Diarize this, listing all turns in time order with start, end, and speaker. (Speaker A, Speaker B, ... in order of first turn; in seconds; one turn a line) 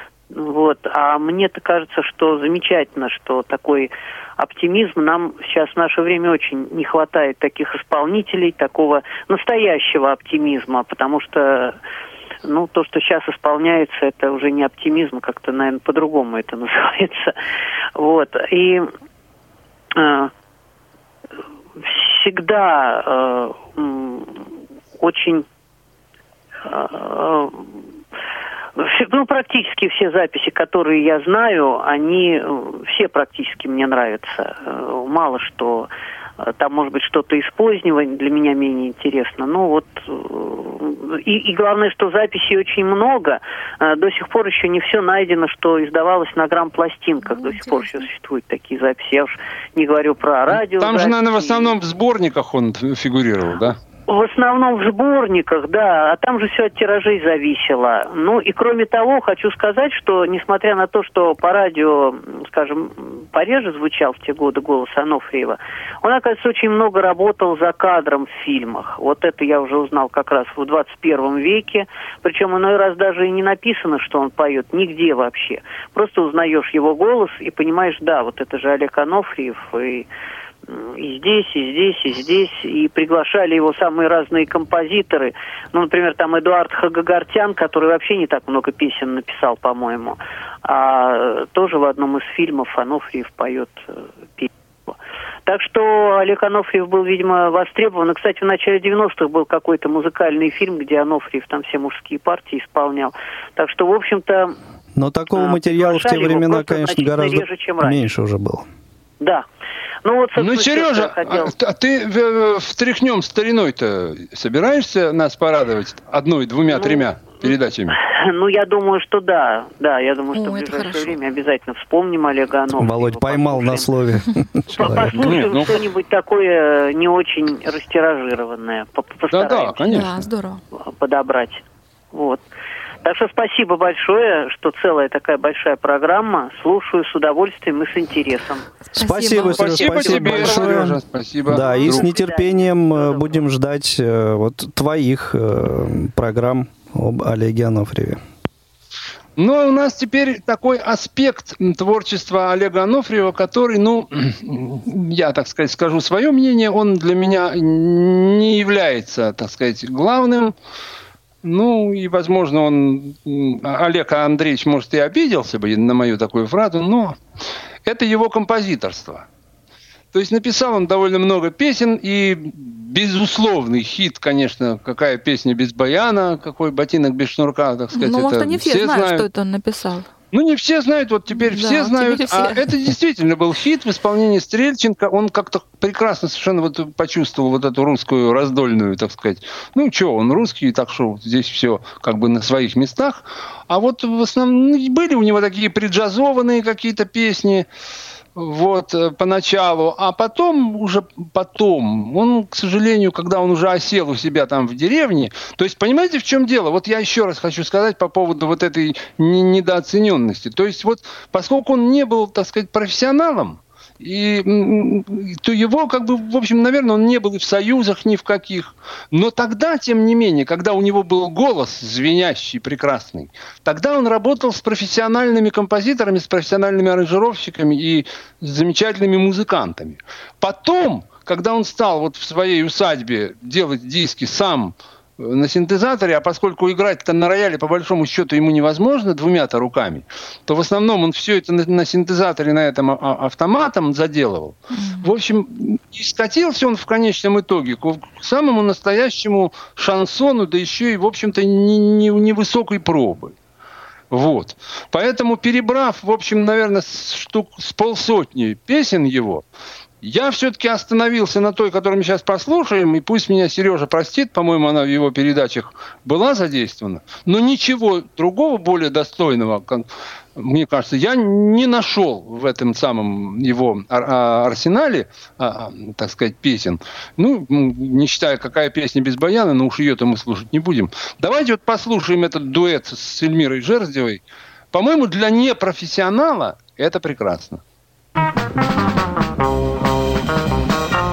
Speaker A: 0.3-11.8
Speaker A: 12.4-17.3
Speaker A: 18.0-18.9
Speaker A: 19.9-20.3
Speaker A: 21.8-24.5
Speaker A: 25.0-25.4
Speaker A: 26.6-27.7
Speaker A: 28.8-35.9
Speaker A: 36.4-51.7
Speaker B: 50.5-53.8
Speaker A: 54.1-80.1
Speaker A: 80.7-93.8
Speaker A: 94.4-104.5
Speaker C: 105.0-108.7
Speaker A: 105.3-108.1
Speaker A: 110.0-111.5
Speaker B: 110.4-118.0
Speaker A: 116.7-123.9
Speaker D: 120.3-121.2
Speaker C: 122.8-125.4
Speaker A: 124.7-130.0
Speaker B: 124.9-125.8
Speaker B: 129.3-130.2
Speaker D: 129.9-130.6
Speaker A: 130.9-132.4
Speaker A: 133.0-138.7
Speaker C: 138.9-148.2
Speaker D: 138.9-139.7
Speaker B: 139.4-142.1
Speaker A: 139.8-140.8
Speaker A: 141.6-143.4
Speaker B: 149.4-160.5
Speaker B: 161.4-167.2
Speaker B: 167.8-169.2
Speaker B: 170.1-179.3
Speaker D: 178.0-180.1
Speaker B: 180.3-197.7
Speaker D: 181.3-182.6
Speaker B: 198.3-253.3
Speaker D: 244.7-245.1
Speaker B: 254.1-259.4
Speaker B: 260.0-287.6